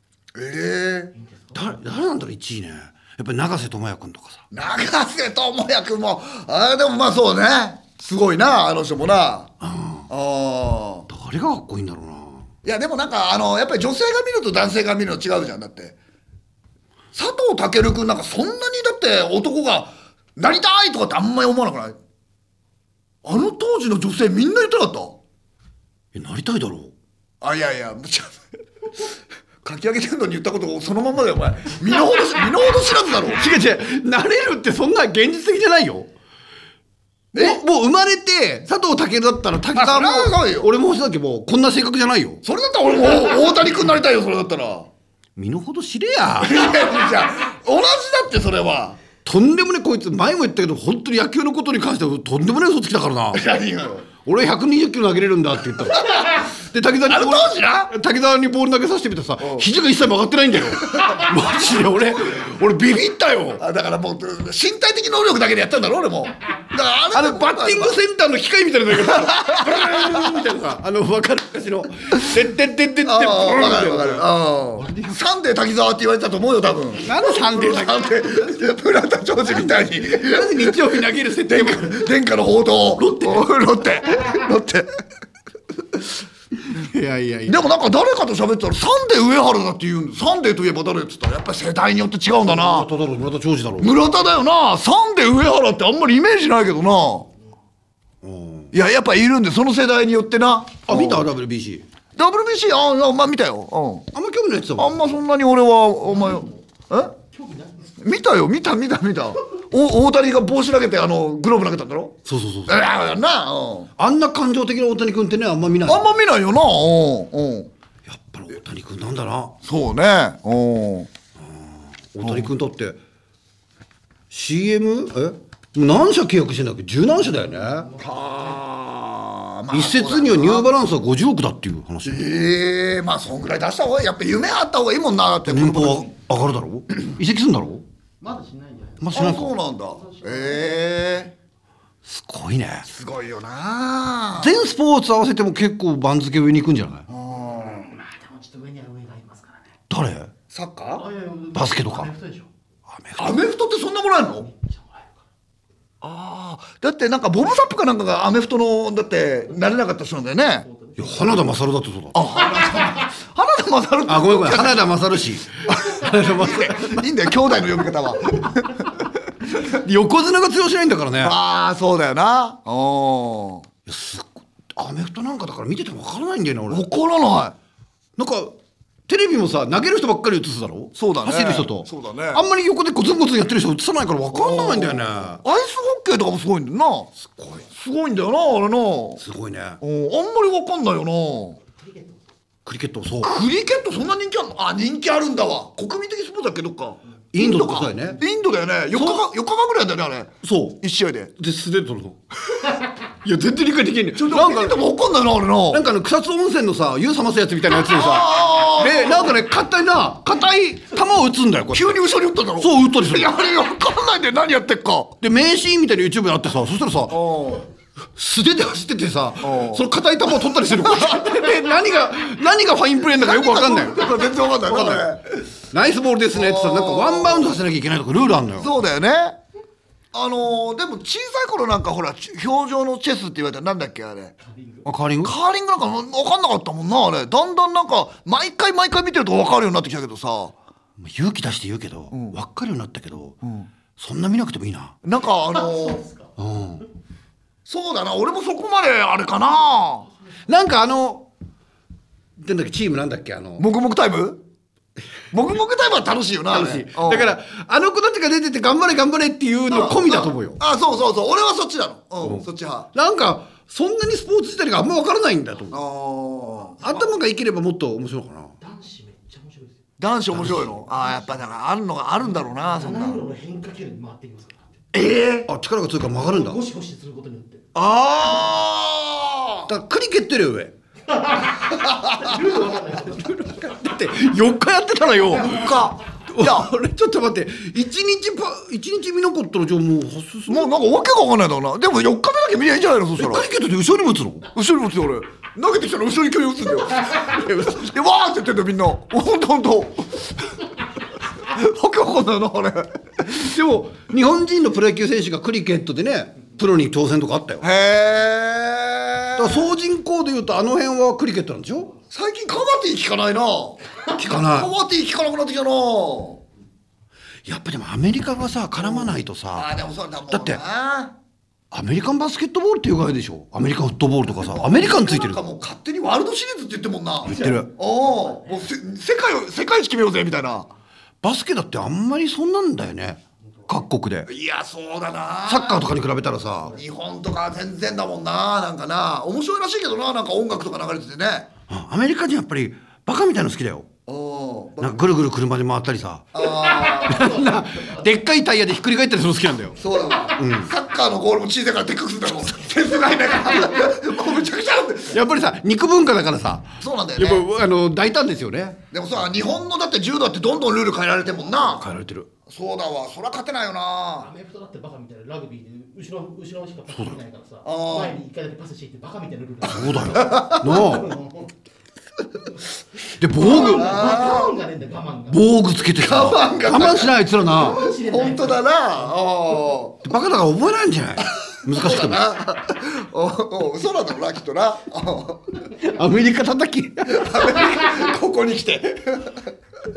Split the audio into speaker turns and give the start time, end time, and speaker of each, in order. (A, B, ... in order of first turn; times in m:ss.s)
0:00.4-0:01.1 A
0:01.3-0:01.7 B
0:01.5-0:04.4 C
0:04.5-0:09.5 A
0:09.6-0:10.1 C
0:10.1-0:11.1 A
0:11.1-0:12.5 C
0:12.6-0:16.0 A
0:17.1-0:22.0 A
0:23.2-0:25.2 A
0:26.1-0:26.9 C
0:27.4-0:28.4 A
0:29.6-0:33.5 A
0:33.3-0:36.1 C
0:37.3-0:37.6 A
0:37.3-0:42.4 C
0:39.7-0:40.7 A
0:42.4-0:44.9 A
0:45.4-0:46.7 C
0:46.4-0:49.0 A
0:49.2-0:53.5 C
0:53.3-0:54.1 A
0:54.2-1:03.6 C
0:55.9-0:56.4 A
0:57.1-0:57.9 A
0:59.4-0:59.7 A
1:00.8-1:01.8 A
1:03.6-1:08.0 A
1:07.1-1:15.2 C
1:08.9-1:10.5 A
1:13.0-1:24.9 A
1:17.0-1:18.4 C
1:19.5-1:22.1 C
1:23.0-1:23.5 C
1:26.6-1:27.6 C
1:27.5-1:32.9 A
1:32.4-1:34.0 C
1:33.8-1:37.3 A
1:38.2-1:38.7 C
1:38.7-1:41.3 A
1:40.9-1:41.9 C
1:42.2-1:44.1 A
1:44.1-1:45.2 C
1:44.8-1:47.1 A
1:46.0-1:48.0 B
1:48.0-1:52.2 A
1:52.2-1:52.8 C
1:52.7-1:53.9 A
1:54.0-1:56.1 C
1:55.9-1:57.7 A
1:58.1-1:59.6 C
1:59.6-2:01.1 A
2:01.4-2:03.0 C
2:02.2-2:02.5 A
2:04.3-2:07.9 C
2:07.4-2:08.6 B
2:08.0-2:10.7 A
2:09.7-2:12.2 C
2:12.0-2:16.1 A
2:15.5-2:17.8 C
2:18.2-2:19.2 B
2:19.0-2:19.5 C
2:19.1-2:21.3 A
2:19.9-2:20.8 B
2:22.0-2:22.9 C
2:22.9-2:24.6 A
2:24.4-2:27.1 C
2:27.1-2:28.0 A
2:27.7-2:29.7 B
2:29.9-2:30.3 C
2:30.5-2:31.1 A
2:31.0-2:32.5 B
2:31.5-2:32.1 C
2:32.9-2:33.4 C
2:33.2-2:34.5 A
2:34.4-2:35.1 B
2:36.0-2:40.7 A
2:40.7-2:41.4 B
2:41.0-2:42.2 C
2:42.1-2:44.9 A
2:44.1-2:47.0 C
2:45.6-2:49.1 A
2:49.6-2:51.4 C
2:51.2-2:53.7 A
2:53.9-2:56.9 C
2:56.7-2:57.6 A
2:58.2-3:05.4 C
3:01.0-3:02.4 A
3:04.3-3:09.2 A
3:07.2-3:07.6 C
3:09.2-3:09.8 C
3:09.8-3:11.6 A
3:11.8-3:12.2 B
3:12.7-3:13.3 C
3:13.2-3:21.3 A
3:17.3-3:18.2 C
3:19.0-3:19.2 C
3:20.4-3:20.8 C
3:21.4-3:22.2 C
3:23.2-3:24.8 C
3:24.2-3:25.9 A
3:25.7-3:32.0 C
3:27.9-3:29.4 A
3:31.7-3:35.2 A
3:32.6-3:33.3 C
3:35.2-3:37.2 C
3:37.1-3:37.7 A
3:38.2-3:45.1 C
3:39.4-3:39.9 A
3:40.5-3:41.5 A
3:43.1-3:45.2 A
3:45.7-3:48.7 C
3:46.3-3:47.6 A
3:48.6-3:49.4 A
3:50.1-3:54.3 A
3:54.4-3:54.9 B
3:54.8-3:55.3 C
3:55.2-4:00.6 A
4:01.0-4:03.4 C
4:02.1-4:02.4 A
4:03.4-4:03.7 A
4:04.0-4:05.0 C
4:05.0-4:06.1 A
4:05.6-4:06.2 B
4:06.4-4:06.8 C
4:07.7-4:10.1 A
4:10.5-4:11.3 C
4:12.4-4:13.6 C
4:13.6-4:14.4 A
4:15.3-4:17.3 A
4:16.5-4:20.6 C
4:19.7-4:22.9 A
4:22.2-4:25.8 C
4:25.7-4:27.1 A
4:26.8-4:28.5 C
4:28.6-4:29.8 B
4:30.0-4:33.2 A
4:30.3-4:30.7 C
4:32.4-4:34.6 B
4:34.9-4:35.5 A
4:35.4-4:36.6 C
4:36.2-4:37.7 B
4:37.8-4:39.7 A
4:39.7-4:40.8 C
4:41.1-4:43.5 B
4:41.7-4:42.5 A
4:43.0-4:50.7 C
4:45.3-4:46.7 A
4:50.5-4:53.5 A
4:53.2-4:54.5 C
4:54.5-5:00.6 A
4:57.4-4:57.8 C
5:01.4-5:03.5 A
5:03.3-5:07.6 C
5:07.6-5:09.7 A
5:09.4-5:11.9 C
5:12.1-5:16.4 A
5:14.1-5:14.7 C
5:17.5-5:19.7 C
5:18.8-5:21.2 A
5:20.3-5:20.6 C
5:21.7-5:25.4 C
5:24.4-5:30.7 A
5:27.2-5:27.7 C
5:31.2-5:34.3 C
5:34.3-5:35.9 A
5:35.5-5:36.8 C
5:36.7-5:41.5 A
5:41.7-5:43.9 C
5:44.1-5:45.0 A
5:44.8-5:49.8 C
5:46.3-5:47.4 A
5:46.8-5:47.9 B
5:49.8-5:55.2 A
5:50.4-5:50.7 C
5:55.1-5:58.8 C
5:56.8-5:57.5 A
5:58.9-6:01.9 A
6:01.7-6:02.3 C
6:02.5-6:04.3 A
6:04.2-6:11.5 B
6:06.9-6:07.2 C
6:07.6-6:08.2 A
6:09.7-6:11.2 C
6:10.1-6:10.8 A
6:13.2-6:14.0 C
6:13.4-6:15.6 B
6:13.4-6:14.6 A
6:15.3-6:17.8 C
6:16.0-6:20.0 A
6:17.5-6:18.6 B
6:20.0-6:22.2 C
6:21.6-6:25.6 A
6:25.8-6:27.4 C
6:27.1-6:29.5 A